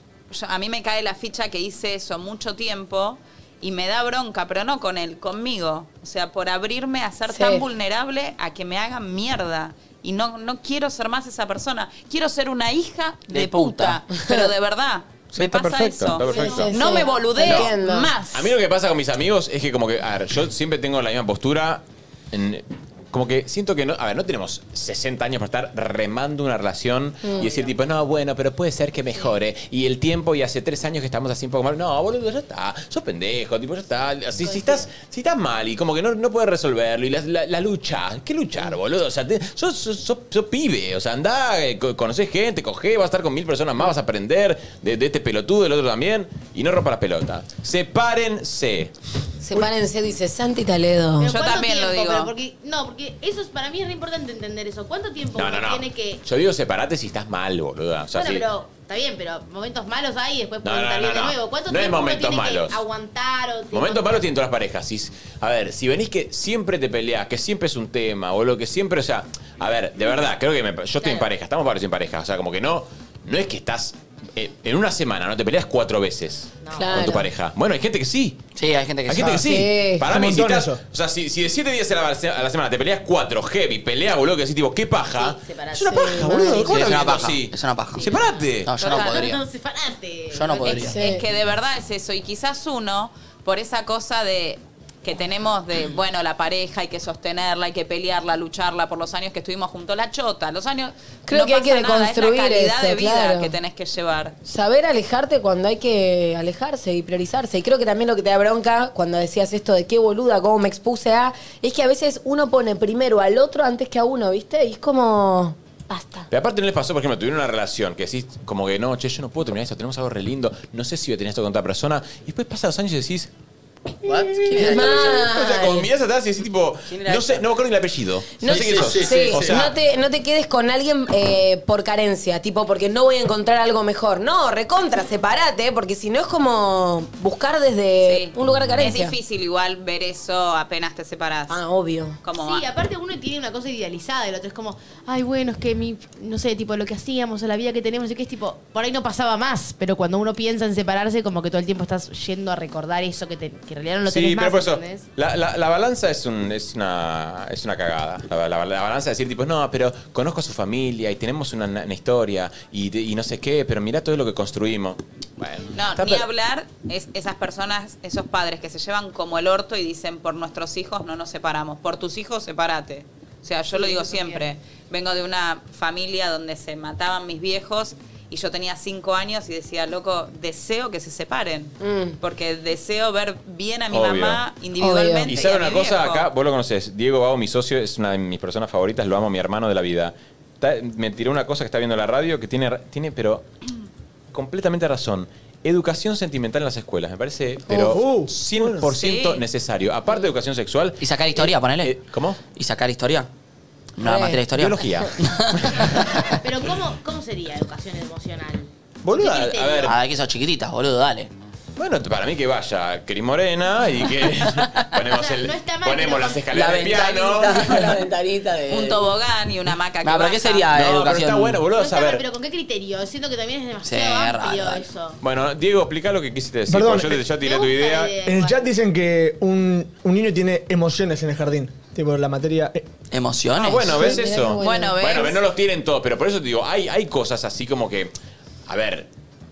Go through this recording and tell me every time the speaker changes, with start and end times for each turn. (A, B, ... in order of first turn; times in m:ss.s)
0:00.3-0:18.5 A
0:07.3-0:07.7 B
0:13.3-0:14.0 C
0:14.3-0:14.5 B
0:15.3-0:17.7 D
0:15.4-0:15.8 C
0:16.2-0:18.2 B
0:18.3-0:48.9 D
0:27.2-0:27.5 B
0:34.4-0:34.8 E
0:49.4-0:51.4 B
0:51.2-0:56.2 E
0:51.2-0:52.3 A
0:55.3-0:58.4 D
0:58.1-1:04.2 E
1:00.6-1:02.8 D
1:03.7-1:18.4 D
1:11.0-1:11.2 E
1:16.6-1:16.9 E
1:16.8-1:17.3 B
1:18.6-1:19.4 C
1:19.1-1:28.9 D
1:19.3-1:20.0 B
1:20.0-1:20.8 F
1:25.1-1:26.2 E
1:25.9-1:26.7 B
1:26.6-1:28.1 C
1:27.9-1:31.0 E
1:28.6-1:29.4 C
1:30.3-1:31.0 C
1:30.6-1:44.3 A
1:30.8-1:31.2 B
1:41.3-1:43.5 B
1:44.4-1:56.3 B
1:56.3-2:03.3 D
2:04.0-2:05.3 C
2:04.5-2:05.9 B
2:04.5-2:09.7 D
2:06.9-2:07.4 C
2:08.4-2:19.1 B
2:08.5-2:09.4 C
2:18.0-2:21.6 A
2:21.5-2:22.2 B
2:22.2-2:22.6 A
2:22.4-2:35.0 E
2:34.0-2:46.3 D
2:45.7-3:06.3 A
2:53.7-2:54.4 E
3:01.8-3:02.2 B
3:03.9-3:04.4 D
3:04.8-3:05.4 B
3:05.3-3:13.4 D
3:14.3-3:22.4 D
3:17.7-3:18.0 B
3:17.9-3:18.9 F
3:19.0-3:19.4 A
3:21.0-3:21.9 C
3:22.5-3:23.3 C
3:24.0-3:25.5 C
3:24.0-3:24.4 B
3:24.5-3:26.4 D
3:26.4-3:29.9 E
3:29.0-3:29.9 D
3:29.8-3:31.3 C
3:31.8-3:38.0 D
3:35.1-3:36.4 E
3:36.5-3:39.0 C
3:38.7-3:40.7 A
3:40.0-3:41.6 C
3:40.7-3:42.2 D
3:41.7-3:45.2 E
3:43.8-3:44.8 C
3:45.2-3:48.2 D
3:46.7-3:47.2 F
3:47.4-3:48.6 E
3:48.2-3:52.8 F
3:53.1-3:54.0 C
3:53.6-3:58.1 D
3:54.0-3:55.0 B
3:54.6-3:55.4 A
3:58.7-3:59.1 D